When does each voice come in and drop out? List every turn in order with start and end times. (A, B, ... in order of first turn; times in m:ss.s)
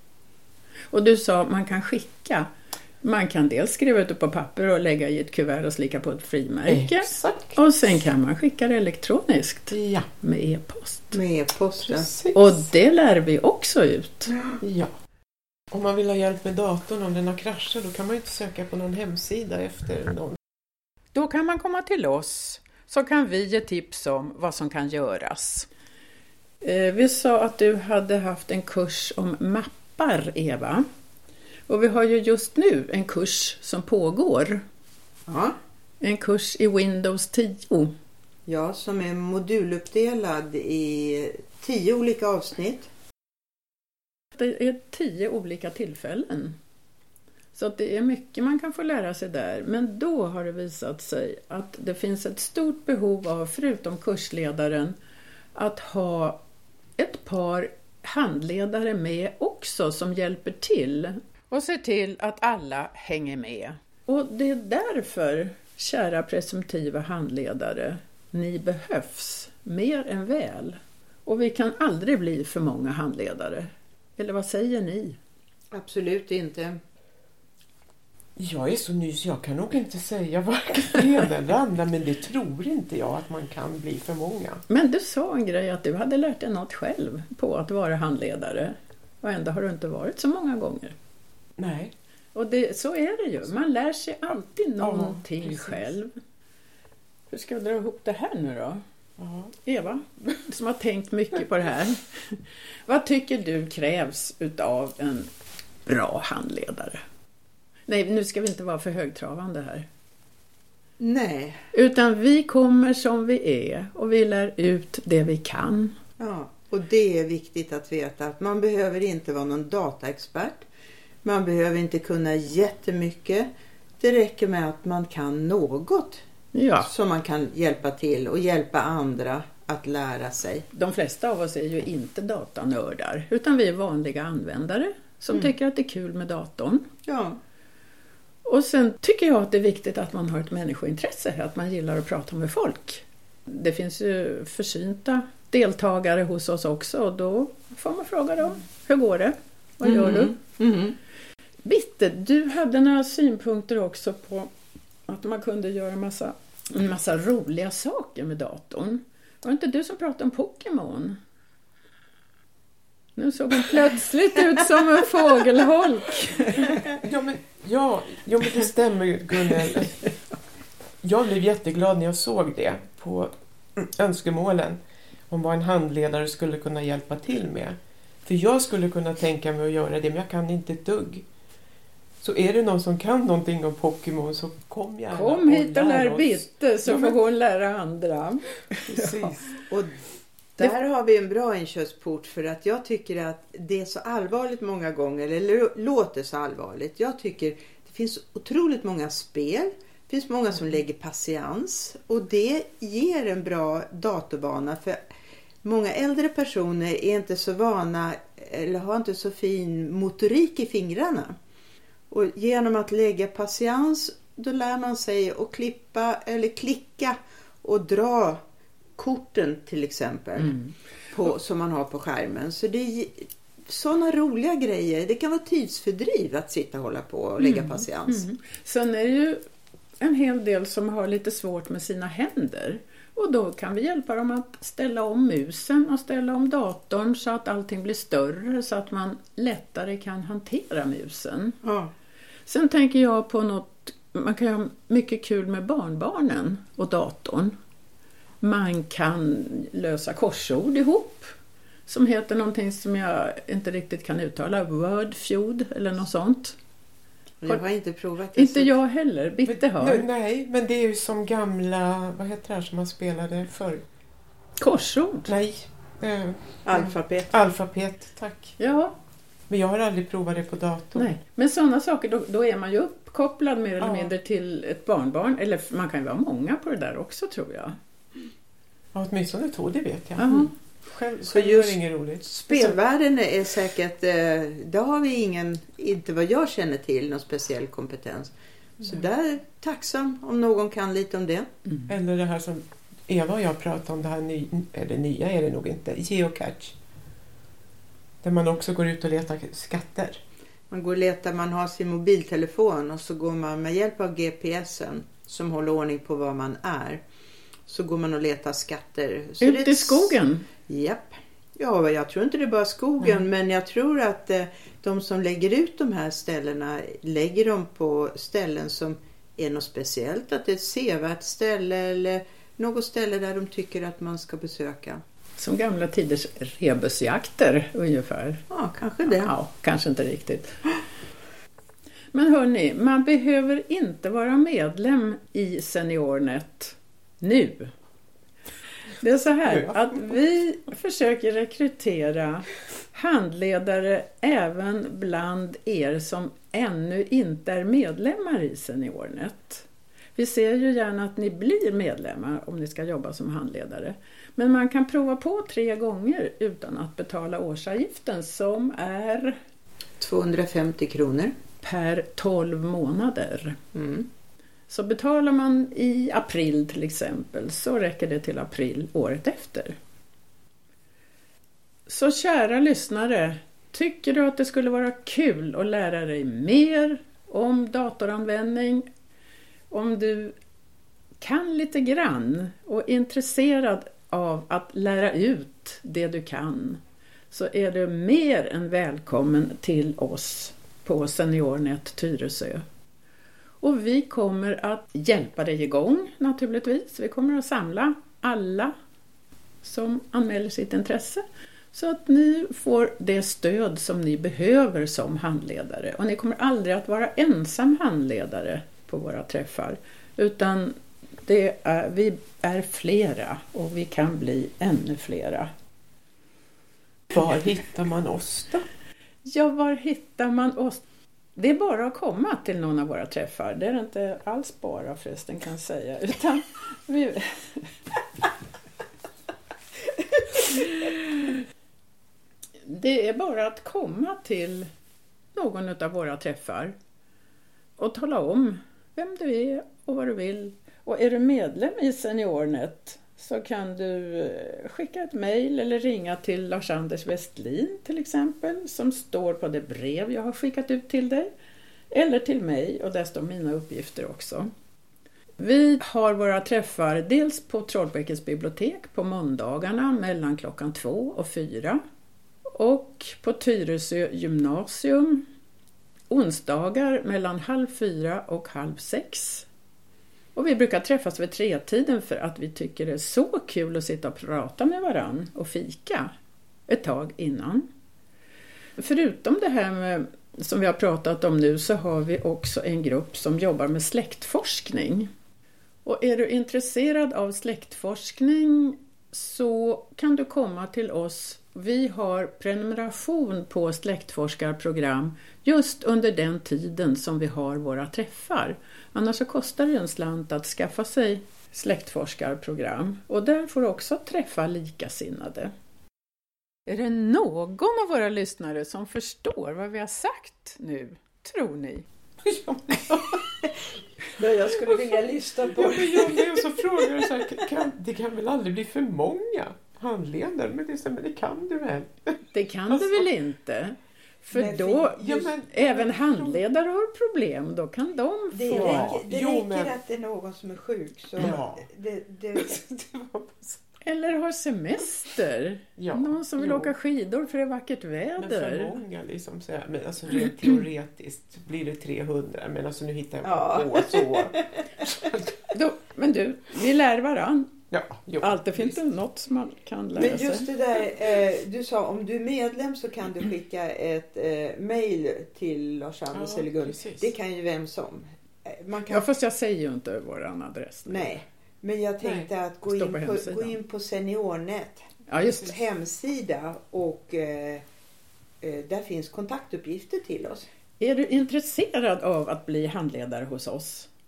0:00.9-0:02.5 A
0:03.0-0:11.2 A
0:06.7-0:07.6 B
0:09.7-0:10.1 B
0:11.1-0:12.1 C
0:11.9-0:12.6 B
0:12.3-0:14.4 A
0:14.6-0:14.9 B
0:15.7-0:20.4 B
0:21.1-0:25.7 A
0:26.6-0:30.8 A
0:31.7-0:34.6 A
0:35.3-0:35.6 C
0:36.0-0:37.9 A
0:38.5-0:42.9 C
0:44.3-0:46.6 A
0:47.5-0:55.0 A
0:55.5-0:56.4 A
0:57.0-1:15.2 A
1:15.7-1:16.8 C
1:18.4-1:24.6 B
1:24.7-1:31.0 A
1:31.6-1:31.9 B
1:32.3-1:36.1 A
1:34.8-1:35.8 B
1:37.3-1:38.8 A
1:39.2-1:39.5 B
1:39.6-1:45.3 A
1:45.8-1:47.0 A
1:47.9-1:49.9 A
1:51.0-1:51.6 C
1:51.7-1:56.0 A
1:56.2-2:00.6 C
2:01.2-2:03.5 C
2:04.0-2:06.2 C
2:06.5-2:06.9 A
2:06.8-2:10.6 C
2:10.7-2:16.9 A
2:17.0-2:17.4 C
2:18.4-2:30.3 A
2:29.8-2:31.0 C
2:31.6-2:34.5 A
2:35.1-2:41.2 A
2:43.2-2:46.8 A
2:47.0-2:50.0 B
2:51.0-3:01.2 B
3:02.2-3:07.2 B
3:05.1-3:09.3 A
3:08.9-3:09.6 B
3:09.7-3:09.9 C
3:10.6-3:25.0 C
3:25.6-3:31.3 C
3:32.1-3:38.4 C
3:39.0-3:40.6 C
3:40.4-3:40.7 A
3:41.1-3:48.3 C
3:47.4-3:49.4 A
3:50.0-4:01.6 A
4:01.6-4:01.9 C
4:02.5-4:07.6 A
4:08.4-4:11.3 A
4:11.9-4:16.6 A
4:17.4-4:18.7 C
4:18.4-4:20.0 A
4:19.4-4:23.8 B
4:24.6-4:25.3 A
4:25.3-4:28.6 B
4:26.6-4:27.3 C
4:28.6-4:29.0 A
4:29.5-4:31.1 B
4:30.9-4:37.8 A
4:33.8-4:34.1 B
4:38.9-4:42.8 B
4:40.2-4:40.5 A
4:41.3-4:51.5 C
4:51.9-4:56.8 B
4:58.2-5:00.2 B
5:00.7-5:07.0 C
5:07.7-5:25.0 C
5:09.4-5:10.5 A
5:25.4-5:28.4 A
5:28.5-5:29.3 C
5:29.0-5:30.6 A
5:32.1-5:37.7 A
5:39.0-5:59.4 A
6:00.0-6:01.3 C
6:01.6-6:03.6 A
6:03.7-6:04.1 C
6:04.7-6:09.8 A
6:11.9-6:18.9 A
6:19.7-6:20.4 A
6:21.2-6:32.6 A
6:33.6-6:38.7 A
6:39.6-6:55.5 A
6:57.1-6:58.6 B
6:59.2-7:00.8 A
7:01.4-7:07.7 A
7:10.5-7:11.0 A
7:12.6-7:14.7 A
7:15.3-7:16.8 A
7:17.8-7:31.3 A
7:31.9-7:34.5 A
7:35.4-7:41.8 A
7:42.5-7:45.2 A
7:46.1-7:49.5 A
7:50.3-7:56.1 A
7:56.7-7:57.7 A
7:58.8-8:05.1 A
8:05.8-8:25.5 A
8:26.7-8:31.8 A
8:32.2-8:33.2 B
8:34.2-8:36.4 C
8:35.5-8:43.0 B
8:42.3-8:49.0 A
8:44.3-8:45.3 C
8:45.0-8:46.4 B
8:48.3-8:52.7 C
8:48.5-8:49.8 B
8:51.2-8:51.7 B
8:52.4-8:53.6 B
8:53.8-8:58.8 A
8:55.8-8:56.7 B
8:58.2-9:05.3 B
9:03.2-9:05.0 C
9:05.5-9:07.5 A
9:07.7-9:08.8 B
9:08.2-9:10.5 A
9:09.9-9:19.1 C
9:16.1-9:17.1 B
9:18.9-9:21.1 A
9:20.9-9:27.6 C
9:22.0-9:22.3 B
9:22.7-9:23.6 A
9:25.1-9:25.5 A
9:28.4-9:30.5 C
9:30.8-9:33.9 A